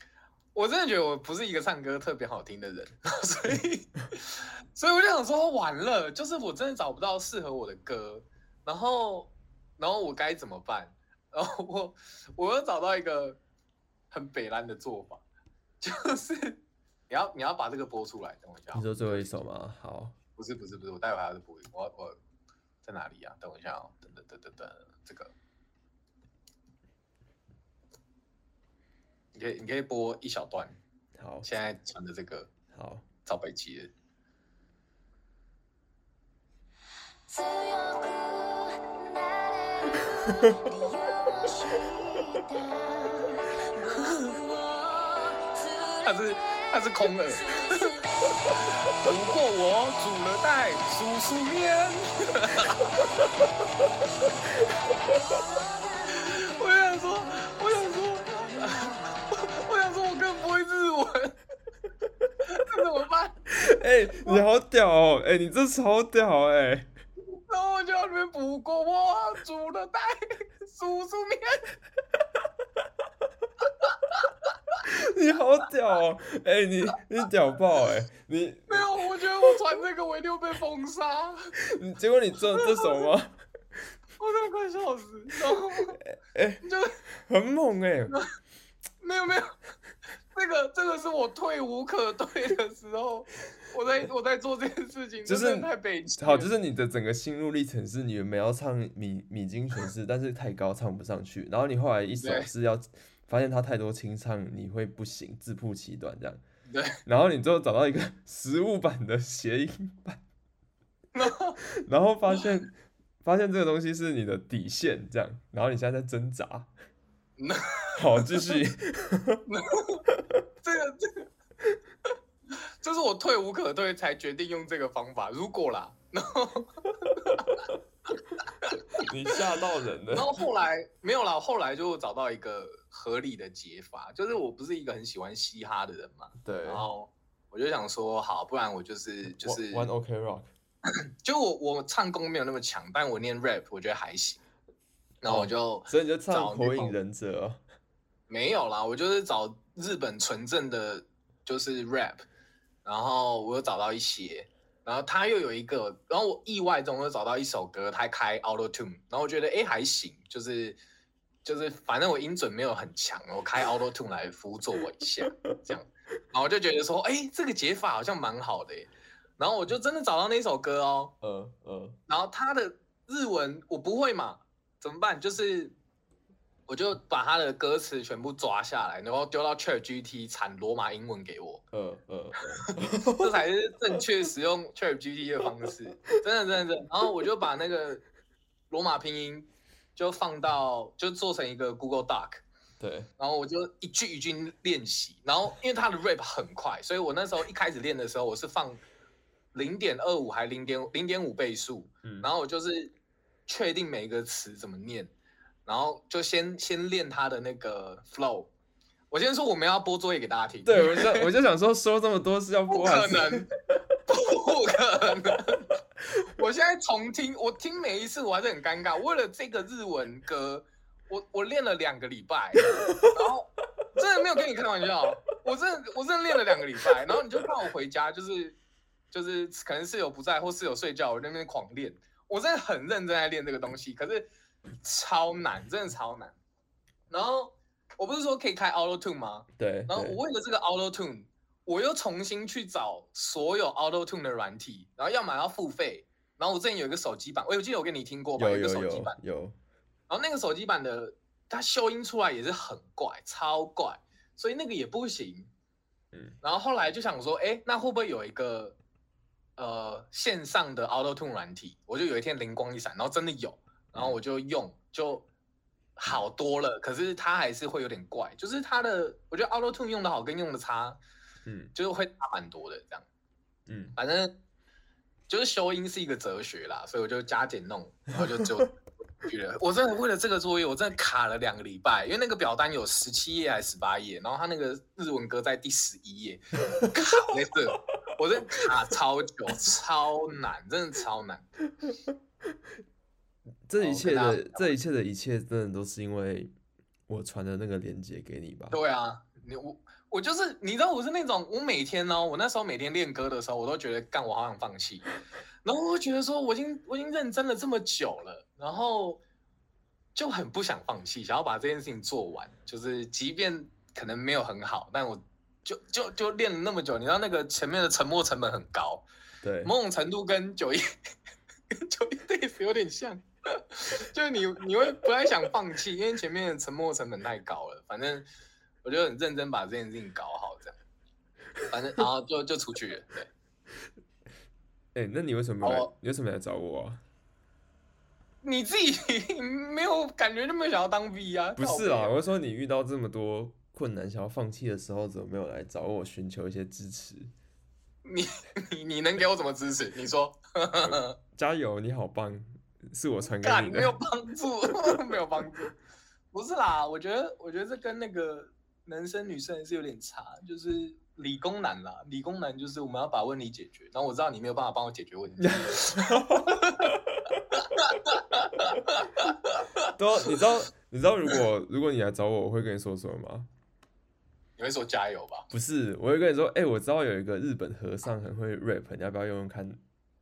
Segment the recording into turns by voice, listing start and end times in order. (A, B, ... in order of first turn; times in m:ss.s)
0:00.5-0:13.4 A
0:14.1-0:15.2 A
0:15.8-0:19.4 A
0:18.7-0:20.2 B
0:20.4-0:22.2 A
0:22.8-0:25.3 A
0:29.3-0:30.8 A
0:31.2-0:31.5 B
0:31.4-0:32.5 A
0:32.7-0:33.0 B
0:33.3-0:33.9 A
0:37.3-0:48.6 C
0:46.0-0:47.9 A
0:48.6-0:53.1 A
0:54.9-0:59.2 C
0:56.2-1:01.4 A
1:02.4-1:03.6 A
1:03.5-1:06.9 B
1:04.1-1:04.4 A
1:07.3-1:11.6 A
1:14.8-1:18.9 B
1:18.7-1:21.5 A
1:21.6-1:23.4 B
1:22.6-1:23.0 A
1:24.2-1:26.0 A
1:26.0-1:26.6 B
1:26.6-1:27.0 A
1:27.2-1:28.2 B
1:29.0-1:29.5 A
1:30.3-1:36.5 A
1:35.2-1:46.4 B
1:42.2-1:42.5 A
1:46.7-1:47.0 A
1:47.1-1:50.2 B
1:51.2-1:51.6 A
1:51.7-1:56.7 B
1:57.4-1:58.5 A
1:58.0-1:59.4 B
1:59.5-2:00.0 A
2:00.6-2:01.3 A
2:02.8-2:07.6 A
2:08.6-2:09.0 A
2:09.0-2:10.3 B
2:10.1-2:19.9 A
2:16.4-2:16.9 B
2:19.3-2:20.5 B
2:21.2-2:24.4 A
2:25.2-2:27.0 A
2:25.2-2:27.6 B
2:28.3-2:32.3 A
2:32.8-2:40.8 A
2:41.4-2:51.1 A
2:45.2-2:45.8 B
2:51.2-2:52.0 B
2:52.1-2:55.8 A
2:56.7-3:01.6 A
3:01.7-3:03.4 B
3:02.6-3:08.0 A
3:08.7-3:12.4 A
3:12.8-3:13.1 B
3:13.2-3:18.8 A
3:19.5-3:22.9 A
3:23.5-3:25.1 A
3:25.7-3:28.5 A
3:29.1-3:31.3 A
3:30.6-3:33.5 B
3:32.7-3:33.5 A
3:34.1-3:35.7 A
3:36.3-3:48.6 A
3:49.1-3:54.3 A
3:54.8-3:56.4 A
3:57.1-4:09.2 A
3:59.6-4:00.2 B
4:08.4-4:09.6 B
4:10.1-4:15.5 A
4:16.4-4:18.8 A
4:19.6-4:25.3 A
4:26.0-4:31.0 A
4:31.5-4:31.7 B
4:31.8-4:33.0 A
4:33.7-4:34.0 B
4:34.0-4:34.3 A
4:35.3-4:38.7 A
4:39.2-4:51.5 A
4:53.7-4:56.5 B
4:53.8-4:54.7 A
4:57.1-4:58.8 B
4:58.7-5:05.1 A
5:05.6-5:09.2 A
5:10.2-5:19.0 A
5:19.4-5:19.7 B
5:19.6-5:20.8 A
5:21.7-5:28.3 A
5:28.8-5:30.8 A
5:31.7-5:33.3 A
5:35.0-5:37.0 B
5:35.6-5:35.9 A
5:38.4-5:42.2 A
5:41.6-5:47.3 B
5:48.0-5:51.2 A
5:50.8-5:54.0 B
5:53.4-5:55.8 A
5:56.3-6:07.0 A
6:05.4-6:07.4 B
6:07.6-6:09.8 A
6:09.9-6:13.5 B
6:14.6-6:15.5 A
6:15.5-6:19.8 B